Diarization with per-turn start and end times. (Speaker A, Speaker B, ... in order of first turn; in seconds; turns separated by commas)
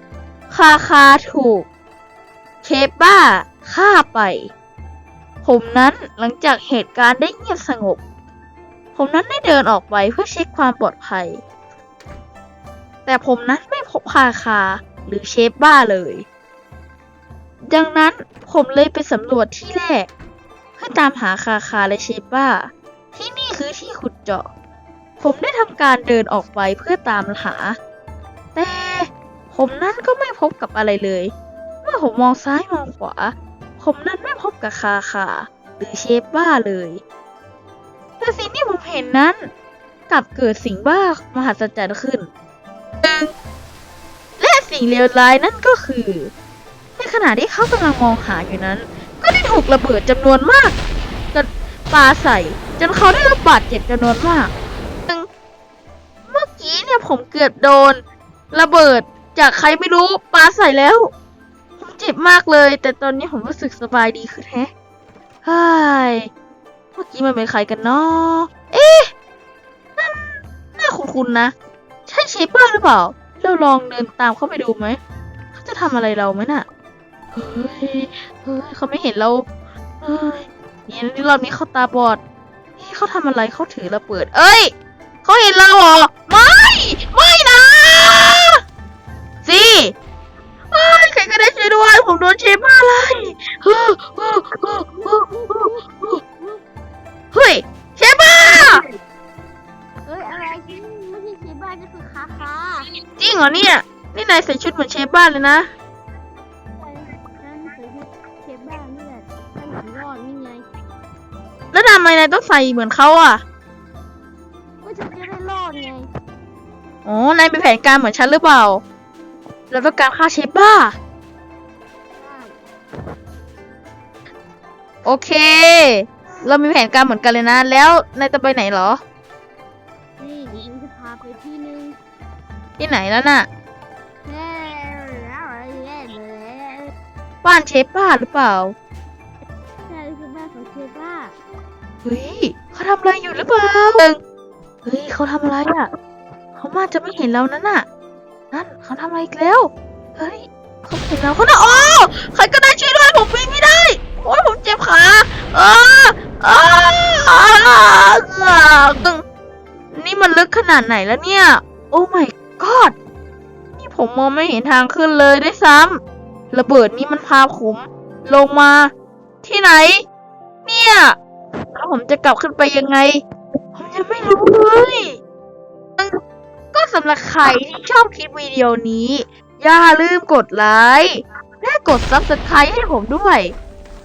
Speaker A: 0.5-1.7, Speaker A: 2.6-4.5, Speaker A: 5.4-8.0, Speaker A: 8.9-11.4, Speaker A: 13.1-16.2, Speaker A: 17.7-20.1, Speaker A: 20.8-24.5, Speaker A: 25.2-27.8, Speaker A: 28.5-31.3, Speaker A: 31.8-37.0, Speaker A: 38.2-39.5, Speaker A: 40.1-42.3, Speaker A: 43.0-43.3, Speaker A: 44.4-46.3, Speaker A: 47.0-50.7, Speaker A: 51.3-54.5, Speaker A: 56.3-61.1, Speaker A: 61.8-64.7, Speaker A: 65.4-66.3, Speaker A: 67.0-69.1, Speaker A: 70.0-71.5, Speaker A: 72.0-75.0, Speaker A: 75.5-76.7, Speaker A: 77.3-79.5, Speaker A: 80.0-82.2, Speaker A: 82.8-84.7, Speaker A: 85.2-88.6, Speaker A: 89.4-89.9, Speaker A: 90.7-96.2, Speaker B: 95.3-95.8, Speaker A: 97.3-98.8, Speaker B: 100.0-102.9, Speaker A: 103.2-105.7, Speaker B: 106.8-110.7, Speaker A: 111.7-113.4, Speaker B: 114.8-116.1, Speaker A: 117.0-118.8, Speaker A: 119.7-121.0, Speaker B: 122.1-122.6, Speaker A: 125.0-129.0, Speaker B: 130.2-132.0, Speaker A: 132.8-133.5, Speaker B: 134.2-136.9, Speaker A: 137.4-138.7, Speaker B: 139.8-141.4, Speaker A: 142.0-144.2, Speaker A: 144.8-145.9, Speaker A: 146.6-147.8, Speaker A: 148.5-159.2, Speaker A: 159.9-162.9, Speaker A: 163.8-166.0, Speaker A: 166.5-168.9, Speaker A: 169.4-170.0, Speaker A: 170.7-171.2, Speaker A: 171.7-173.2, Speaker A: 173.7-175.2, Speaker A: 176.7-183.5